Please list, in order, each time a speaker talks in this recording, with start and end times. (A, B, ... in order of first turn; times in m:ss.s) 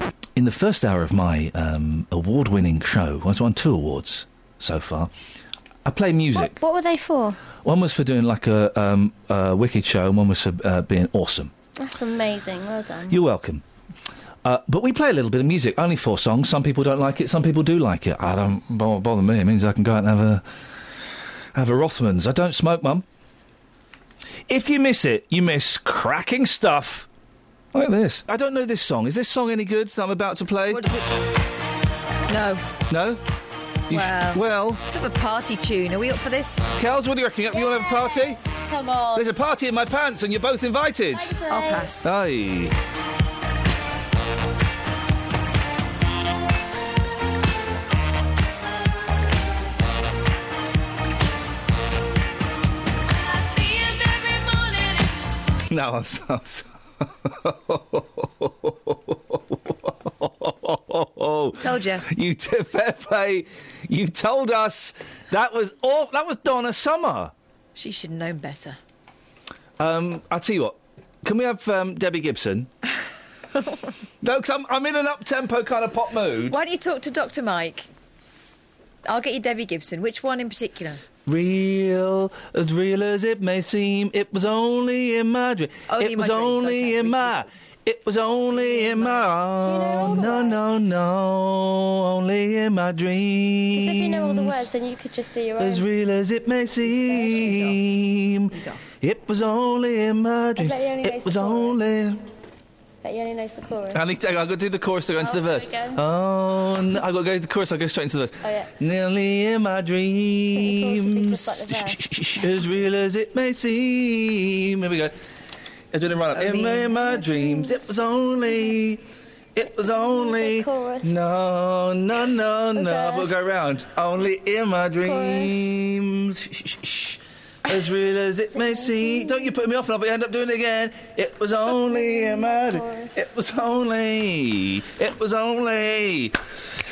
0:00.4-0:05.1 A
0:05.8-0:06.6 A
0:06.3-0:07.4 B
0:07.6-0:11.5 A
0:11.8-0:13.2 B
0:13.1-0:13.6 A
0:14.4-0:20.4 A
0:21.6-0:23.0 A
0:24.5-0:27.1 A
0:27.7-0:30.8 A
0:30.7-0:31.1 C
0:32.3-0:32.6 C
0:32.9-0:33.2 A
0:33.9-0:34.8 A
0:33.9-0:36.7 C
0:36.8-0:38.4 A
0:37.5-0:39.3 B
0:39.1-0:41.4 A
0:41.1-0:41.9 B
0:41.5-0:42.1 C
0:42.0-0:42.8 A
0:55.7-1:07.3 A
1:01.6-1:02.1 C
1:07.8-1:08.8 C
1:09.8-1:12.7 A
1:14.2-1:16.6 A
1:16.5-1:17.9 C
1:19.0-1:21.0 C
1:21.3-1:34.7 A
1:25.9-1:27.4 C
1:28.5-1:29.3 C
1:29.6-1:30.7 B
1:33.7-1:35.9 B
1:35.6-1:42.2 A
1:36.9-1:37.5 B
1:37.1-1:37.8 C
1:38.5-1:38.9 C
1:40.6-1:41.8 B
1:43.0-1:44.0 B
1:43.9-1:55.2 A
1:45.2-1:46.0 B
1:48.4-1:48.7 B
1:50.5-1:52.9 B
1:55.9-1:59.0 A
1:56.3-1:57.2 C
1:57.1-1:57.8 B
1:59.6-2:16.4 A
1:59.7-2:01.4 B
2:02.8-2:03.5 B
2:05.0-2:05.7 B
2:08.5-2:09.6 B
2:11.7-2:13.2 B